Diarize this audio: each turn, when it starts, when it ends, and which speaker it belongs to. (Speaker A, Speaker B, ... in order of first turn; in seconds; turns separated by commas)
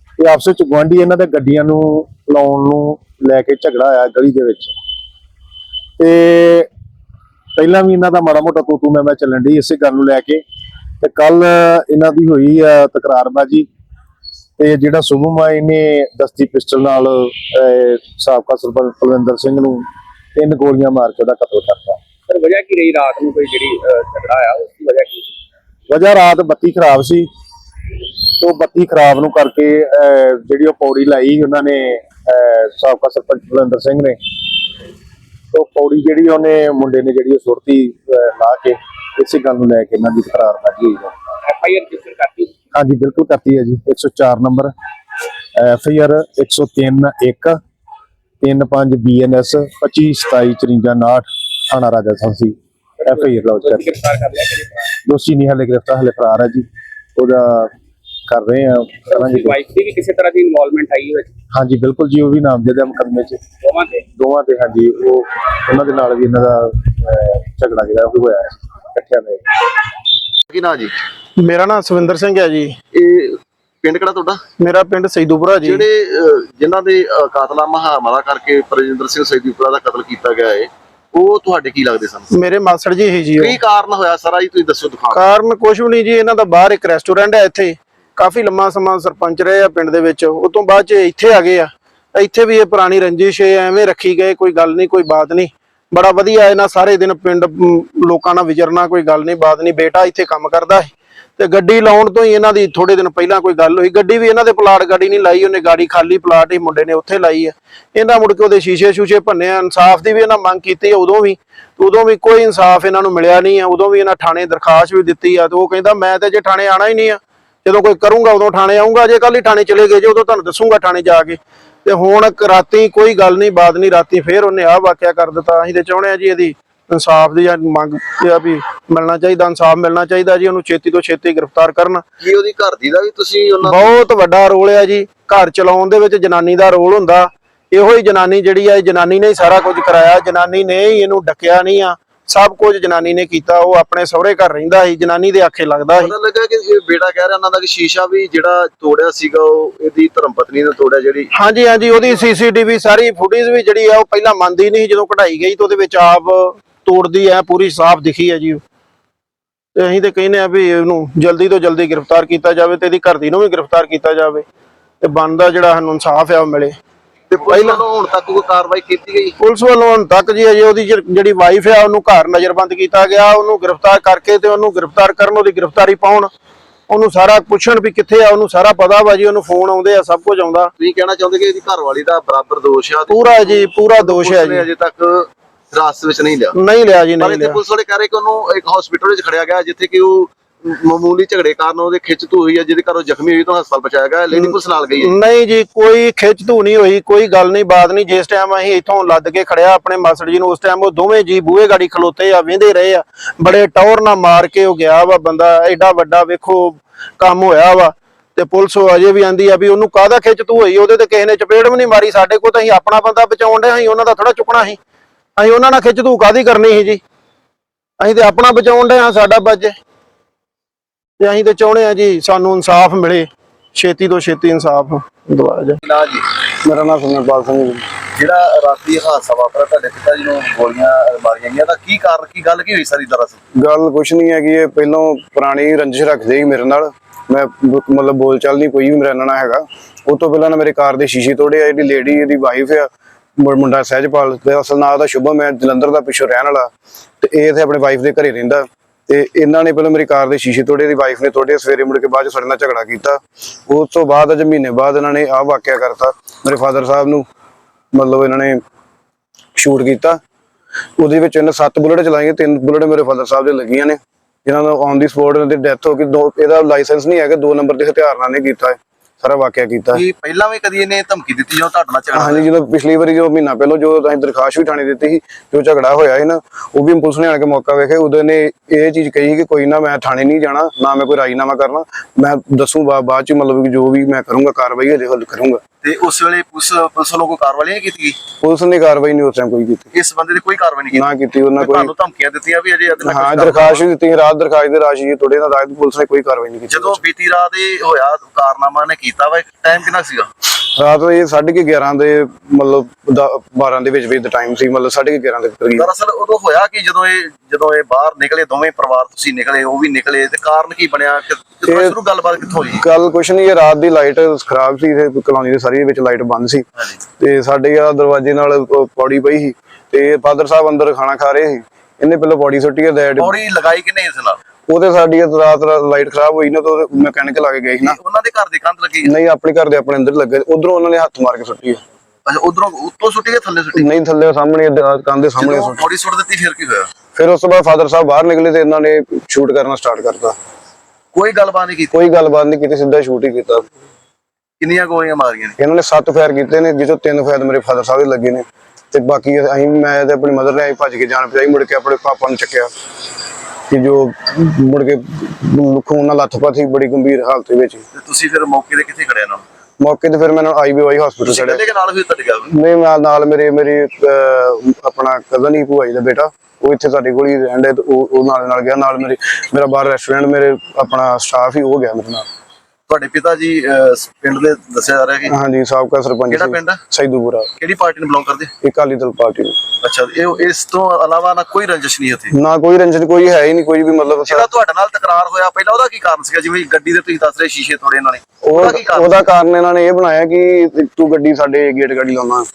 Speaker A: 0.2-4.7, Speaker A: 6.0-6.7, Speaker A: 7.6-10.4, Speaker A: 11.0-13.7, Speaker A: 14.6-22.0, Speaker B: 22.3-25.3, Speaker A: 25.9-27.3, Speaker A: 28.4-34.2, Speaker A: 35.5-41.1, Speaker B: 41.5-42.5, Speaker A: 42.7-44.7, Speaker A: 45.5-47.6, Speaker A: 48.4-54.1, Speaker B: 53.1-54.8, Speaker A: 54.9-57.7, Speaker A: 58.3-59.6, Speaker B: 59.1-61.3, Speaker A: 61.5-63.5, Speaker B: 63.6-64.0, Speaker A: 64.1-69.6, Speaker C: 70.5-71.0, Speaker D: 71.4-72.7, Speaker C: 72.9-74.4, Speaker D: 74.6-75.8, Speaker C: 75.6-82.3, Speaker D: 82.3-83.6, Speaker C: 83.4-85.3, Speaker D: 85.1-132.0, Speaker C: 132.2-134.0, Speaker D: 133.6-146.1, Speaker C: 146.0-151.3, Speaker D: 151.3-158.6, Speaker D: 159.7-164.4, Speaker D: 165.0-166.7, Speaker C: 167.3-169.3, Speaker D: 167.5-167.8, Speaker D: 169.4-176.3, Speaker D: 176.9-180.7, Speaker C: 180.8-186.6, Speaker D: 183.1-184.7, Speaker D: 186.5-187.6, Speaker C: 187.2-195.1, Speaker D: 194.3-214.8, Speaker D: 215.4-217.0, Speaker D: 218.0-219.7, Speaker D: 221.2-225.8, Speaker C: 225.8-226.2, Speaker E: 226.6-227.8, Speaker C: 228.1-233.4, Speaker E: 233.6-257.2, Speaker E: 257.9-258.6, Speaker E: 259.6-260.2, Speaker E: 261.0-270.0, Speaker C: 269.9-272.5, Speaker E: 272.1-285.6, Speaker C: 285.8-288.2, Speaker E: 288.4-289.9, Speaker C: 289.9-293.8, Speaker E: 290.9-291.9, Speaker E: 293.0-297.0, Speaker C: 296.7-300.3, Speaker E: 300.6-305.9, Speaker C: 305.7-312.8, Speaker E: 311.7-311.9, Speaker E: 312.7-316.6, Speaker E: 317.2-323.4, Speaker C: 323.2-324.4, Speaker E: 324.7-328.0, Speaker C: 327.8-329.1, Speaker E: 329.0-331.8, Speaker C: 332.2-333.9, Speaker E: 333.7-335.8, Speaker C: 335.4-336.9, Speaker E: 337.1-340.4, Speaker C: 341.1-341.9, Speaker E: 341.9-343.7, Speaker C: 344.6-345.6, Speaker E: 345.6-352.7, Speaker E: 353.7-357.9, Speaker C: 357.9-359.4, Speaker E: 359.8-361.6, Speaker C: 361.2-362.5, Speaker E: 362.5-372.3, Speaker C: 372.9-375.3, Speaker E: 375.3-377.5, Speaker C: 376.3-376.8, Speaker C: 377.6-378.5, Speaker E: 378.6-379.6, Speaker C: 379.8-382.3, Speaker E: 382.3-384.5, Speaker C: 384.2-389.2, Speaker E: 388.4-392.5